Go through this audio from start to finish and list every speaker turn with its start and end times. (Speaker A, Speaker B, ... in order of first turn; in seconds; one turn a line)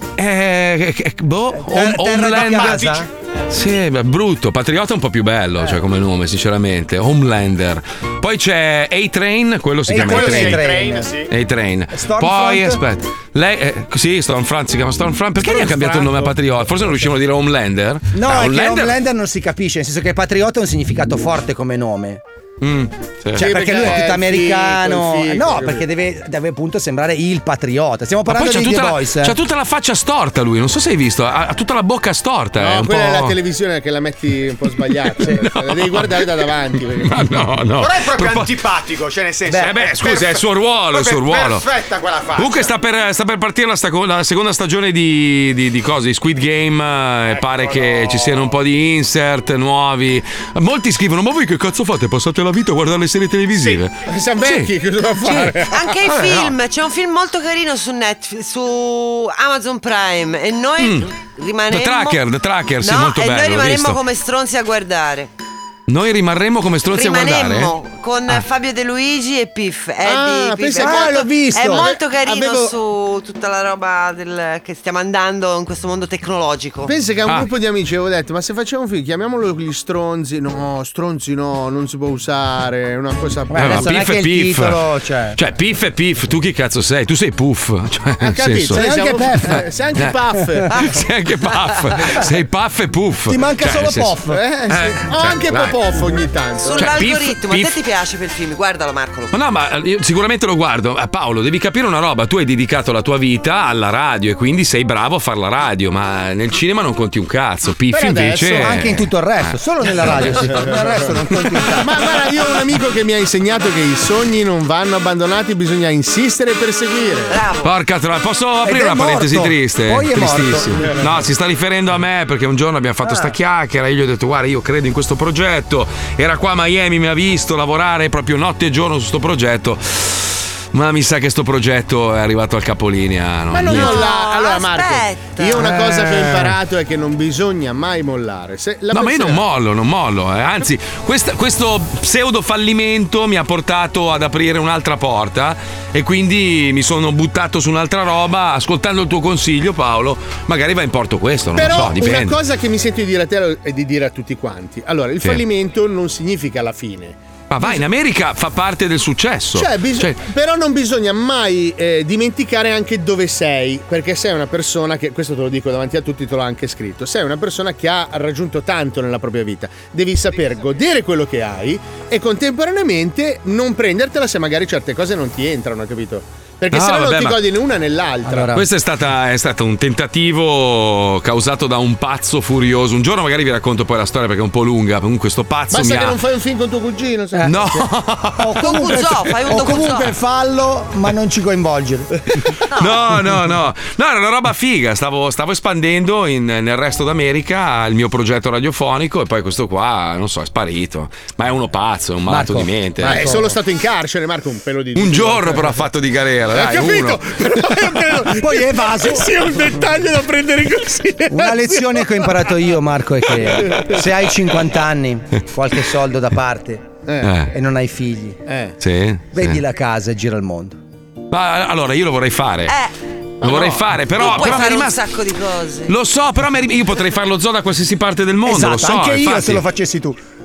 Speaker A: 0.2-19.0
Speaker B: 1.6-3.1
Speaker B: 9.9-11.1
Speaker C: 10.0-11.3
Speaker B: 11.9-12.8
Speaker B: 15.4-16.2
Speaker B: 18.1-22.2
Speaker A: 22.6-24.0
Speaker B: 23.4-29.4
Speaker D: 23.4-25.9
Speaker A: 28.3-33.4
Speaker D: 32.6-37.1
Speaker A: 35.2-36.3
Speaker A: 37.0-38.7
Speaker C: 37.8-40.4
Speaker B: 39.5-39.8
Speaker A: 39.6-41.8
Speaker C: 40.9-42.7
Speaker A: 42.3-54.7
Speaker C: 47.4-48.5
Speaker D: 54.1-56.0
Speaker A: 55.2-56.5
Speaker E: 55.7-62.2
Speaker A: 60.8-61.1
Speaker A: 61.7-64.0
Speaker E: 62.8-65.3
Speaker A: 65.9-67.7
Speaker E: 66.9-76.9
Speaker D: 70.0-72.7
Speaker B: 70.8-71.9
Speaker D: 76.8-84.0
Speaker B: 83.5-85.4
Speaker A: 83.6-90.2
Speaker D: 88.2-90.7
Speaker B: 88.7-89.6
Speaker A: 90.7-95.8
Speaker B: 93.3-94.4
Speaker D: 94.3-97.1
Speaker E: 96.6-99.3
Speaker A: 96.7-97.8
Speaker A: 99.3-110.7
Speaker D: 107.9-108.7
Speaker B: 108.5-112.0
Speaker D: 111.8-117.4
Speaker E: 117.3-117.7
Speaker A: 117.6-134.1
Speaker B: 118.6-121.1
Speaker B: 123.0-123.3
Speaker D: 133.5-139.4
Speaker E: 133.6-135.8
Speaker A: 135.6-136.6
Speaker A: 138.9-152.4
Speaker D: 151.6-157.8
Speaker A: 157.5-160.2
Speaker D: 159.6-178.5
Speaker A: 176.7-177.4
Speaker B: 178.3-178.7
Speaker A: 178.5-186.2
Speaker D: 185.7-187.8
Speaker B: 187.3-187.7
Speaker A: 187.4-190.0
Speaker B: 188.4-192.1
Speaker E: 188.6-190.1
Speaker E: 192.7-193.1
Speaker A: 192.8-203.4
Speaker B: 202.3-203.5
Speaker D: 203.0-205.8
Speaker A: 205.0-207.5
Speaker D: 206.5-211.8
Speaker B: 208.2-209.3
Speaker B: 211.3-218.4
Speaker D: 217.1-217.3
Speaker A: 217.2-217.5
Speaker D: 218.5-218.8
Speaker A: 218.8-219.6
Speaker B: 219.3-220.8
Speaker A: 221.3-222.8
Speaker A: 223.4-225.0
Speaker D: 223.4-223.8
Speaker E: 224.2-225.9
Speaker A: 225.9-229.6
Speaker B: 228.4-230.2